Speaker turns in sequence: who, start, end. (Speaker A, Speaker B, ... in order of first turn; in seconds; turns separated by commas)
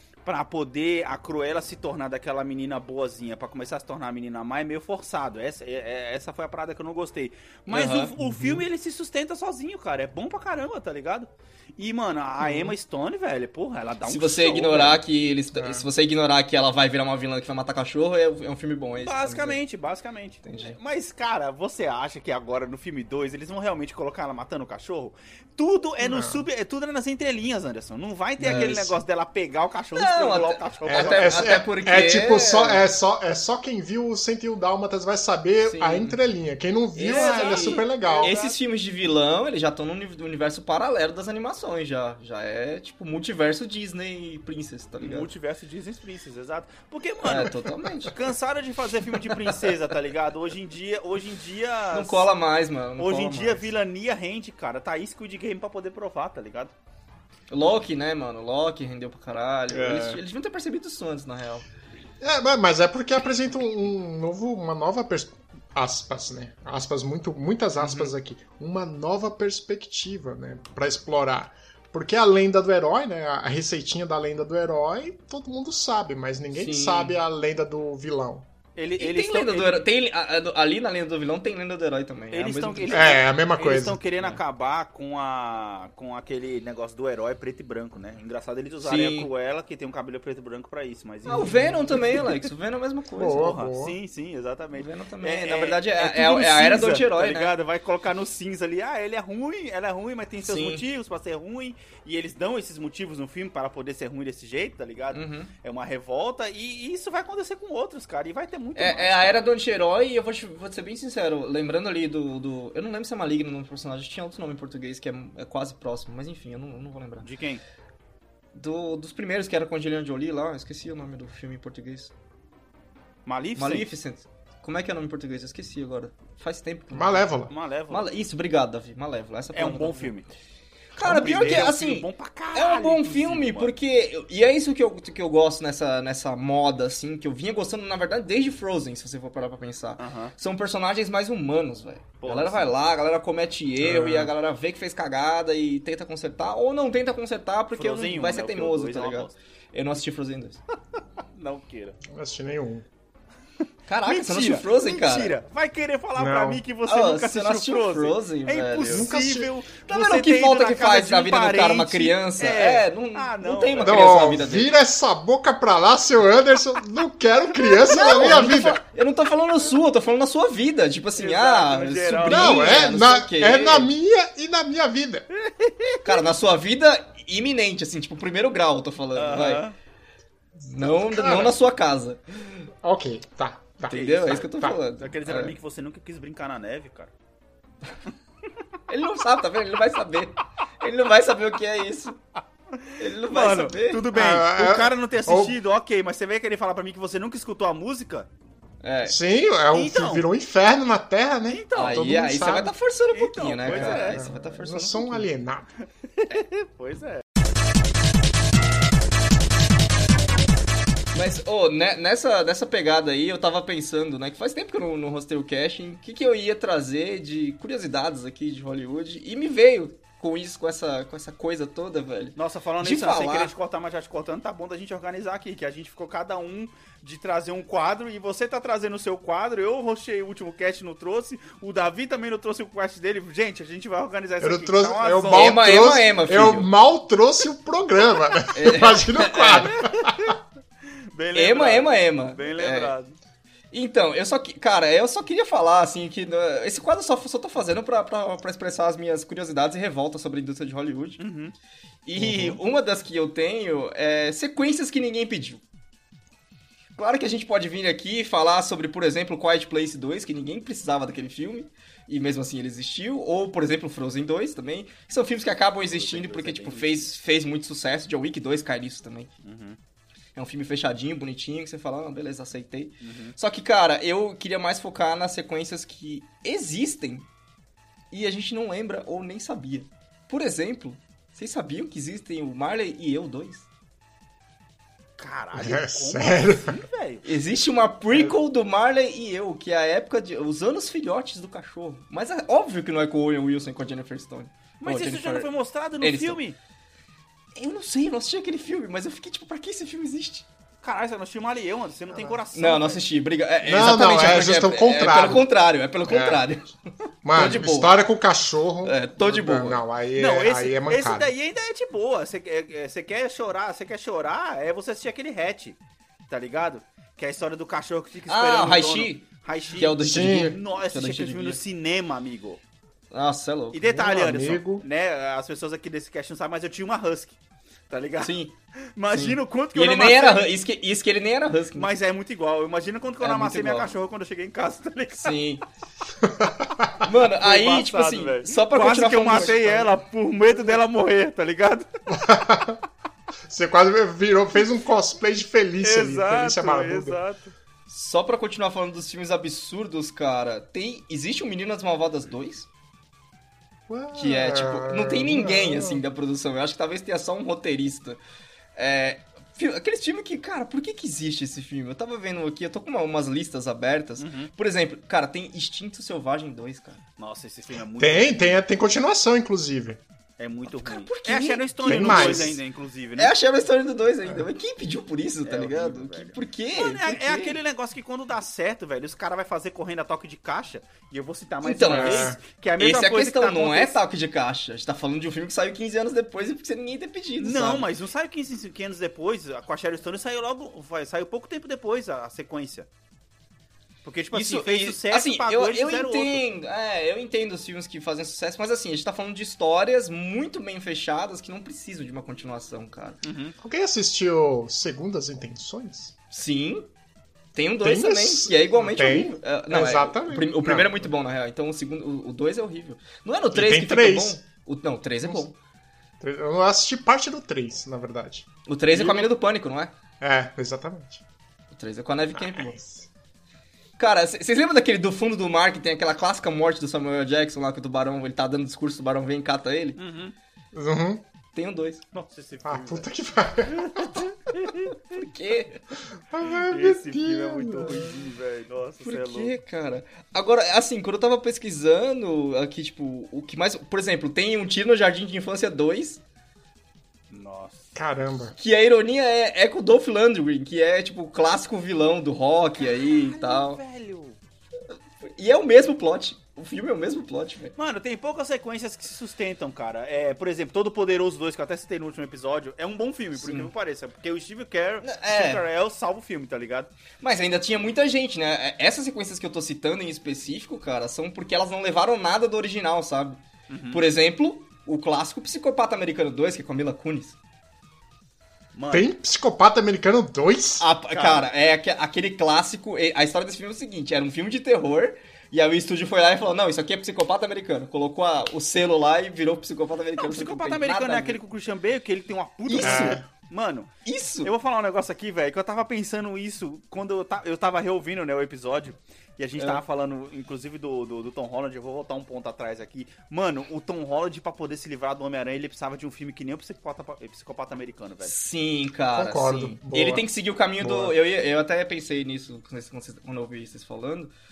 Speaker A: 0.2-15.0, Speaker B: 7.7-8.1, Speaker C: 8.2-8.6, Speaker B: 14.0-19.6, Speaker C: 15.5-15.8, Speaker A: 18.9-31.5, Speaker B: 20.4-20.8, Speaker C: 26.0-26.4, Speaker B: 28.4-29.0, Speaker B: 29.9-32.8, Speaker C: 30.9-38.3, Speaker B: 35.6-36.2, Speaker B: 36.9-45.3, Speaker A: 37.0-38.6, Speaker A: 45.0-47.5, Speaker B: 47.2-48.1, Speaker A: 48.1-52.3, Speaker B: 51.9-53.7, Speaker A: 53.0-56.7, Speaker B: 57.5-61.6, Speaker C: 59.7-60.2, Speaker C: 62.2-78.5, Speaker B: 67.8-68.1, Speaker B: 76.5-77.2, Speaker A: 78.8-79.8, Speaker B: 79.0-83.0, Speaker A: 82.3-92.2, Speaker C: 82.9-84.0, Speaker B: 88.8-89.3, Speaker B: 91.2-93.5, Speaker C: 93.2-94.0, Speaker A: 93.4-109.4, Speaker B: 94.8-97.5, Speaker B: 100.4-100.8, Speaker B: 105.1-105.5, Speaker B: 108.8-117.3, Speaker A: 117.2-117.6, Speaker B: 118.5-122.1, Speaker A: 123.2-123.9, Speaker B: 123.6-127.3, Speaker C: 126.9-127.5, Speaker A: 127.5-128.1, Speaker B: 127.9-130.1, Speaker A: 129.5-130.3, Speaker B: 130.9-150.6, Speaker A: 131.0-133.7, Speaker A: 140.0-140.3, Speaker A: 142.2-142.7, Speaker C: 143.8-144.3, Speaker A: 147.8-149.3, Speaker A: 151.3-152.0, Speaker C: 152.0-152.8, Speaker B: 153.9-155.3, Speaker A: 154.0-164.3, Speaker C: 156.2-156.6, Speaker B: 156.8-159.1, Speaker C: 158.9-159.5, Speaker B: 159.9-164.7, Speaker C: 163.8-168.8, Speaker B: 167.7-173.9, Speaker A: 171.2-172.9, Speaker C: 172.2-175.2, Speaker A: 175.3-176.2, Speaker B: 176.0-179.6, Speaker A: 179.1-179.7, Speaker B: 180.7-182.7, Speaker C: 180.8-181.6, Speaker C: 182.8-184.8, Speaker A: 183.9-187.1, Speaker B: 183.9-185.5, Speaker B: 188.9-192.2, Speaker A: 192.8-198.3, Speaker B: 193.0-194.1, Speaker C: 194.1-195.6, Speaker B: 198.8-199.2, Speaker C: 199.1-202.7, Speaker A: 199.7-200.2, Speaker A: 201.5-202.1, Speaker B: 201.8-205.3, Speaker A: 203.1-204.2, Speaker C: 203.7-205.7, Speaker A: 206.2-207.2, Speaker B: 211.1-223.5, Speaker A: 222.3-235.6, Speaker C: 234.4-240.3, Speaker B: 235.3-236.7, Speaker B: 238.5-239.8, Speaker A: 239.6-240.3, Speaker A: 241.1-243.2, Speaker B: 241.3-242.9, Speaker B: 243.7-251.2, Speaker A: 251.2-251.5, Speaker B: 252.1-255.6, Speaker C: 252.2-252.6, Speaker B: 257.0-269.3, Speaker A: 265.9-267.1, Speaker A: 269.4-269.8, Speaker B: 270.3-277.3, Speaker A: 273.0-273.3, Speaker B: 278.1-283.6, Speaker A: 285.2-287.2, Speaker C: 285.5-286.8, Speaker B: 287.2-295.5, Speaker A: 294.8-296.6, Speaker B: 296.0-296.4, Speaker B: 297.5-300.5, Speaker A: 300.8-303.0, Speaker B: 302.5-306.7, Speaker C: 303.6-305.4, Speaker C: 306.1-306.4, Speaker C: 307.2-311.3, Speaker B: 307.3-308.0, Speaker B: 308.8-309.8, Speaker A: 310.1-315.8, Speaker A: 316.3-322.6, Speaker B: 318.3-321.6, Speaker C: 320.0-320.6, Speaker B: 323.1-324.0, Speaker A: 323.7-327.4, Speaker C: 323.8-324.8, Speaker A: 327.9-328.3, Speaker B: 328.2-328.5, Speaker A: 328.9-330.5, Speaker B: 329.1-331.9, Speaker A: 331.7-335.4, Speaker B: 333.2-333.9, Speaker B: 335.2-335.6, Speaker C: 336.2-337.0, Speaker B: 337.0-339.9, Speaker A: 337.4-341.9, Speaker C: 342.1-342.8, Speaker C: 343.5-347.2, Speaker A: 345.8-347.5, Speaker B: 347.9-352.7, Speaker C: 353.9-356.0, Speaker B: 354.1-358.2, Speaker B: 358.8-367.0, Speaker A: 364.2-364.5, Speaker A: 367.2-368.6, Speaker C: 368.0-370.0, Speaker A: 370.4-373.3, Speaker B: 370.7-372.6, Speaker C: 371.8-372.6, Speaker B: 373.2-377.6, Speaker A: 375.4-384.0, Speaker B: 381.6-387.9, Speaker C: 381.9-382.4, Speaker A: 387.4-392.9, Speaker A: 394.0-396.4, Speaker B: 394.3-403.2, Speaker A: 403.2-403.5, Speaker C: 403.6-406.1, Speaker B: 406.3-406.9, Speaker B: 407.5-415.6, Speaker C: 407.8-411.1, Speaker C: 413.5-414.4, Speaker C: 416.2-419.3, Speaker B: 418.6-419.9, Speaker C: 420.2-421.2, Speaker B: 421.7-422.8, Speaker C: 422.3-423.1, Speaker B: 424.0-430.0, Speaker A: 429.9-430.3, Speaker C: 430.7-431.2, Speaker B: 431.5-432.0, Speaker A: 432.1-433.1, Speaker C: 432.6-434.1, Speaker A: 433.7-435.2, Speaker B: 435.1-435.8, Speaker C: 436.3-438.1, Speaker A: 436.5-439.5, Speaker B: 439.0-446.2, Speaker A: 447.3-447.9, Speaker C: 447.9-448.5, Speaker B: 448.6-453.8, Speaker A: 452.8-454.4, Speaker B: 455.2-457.7, Speaker A: 457.8-466.9, Speaker B: 463.4-463.7, Speaker B: 465.0-465.6, Speaker B: 467.2-477.4, Speaker A: 473.7-474.0, Speaker A: 478.7-479.1, Speaker C: 478.9-480.8, Speaker B: 480.8-491.4, Speaker A: 481.1-481.5, Speaker A: 490.2-493.9, Speaker B: 492.7-493.2, Speaker C: 492.8-493.2, Speaker B: 494.0-494.5, Speaker A: 494.4-508.3, Speaker B: 508.2-514.3, Speaker C: 509.1-510.2, Speaker C: 510.8-511.1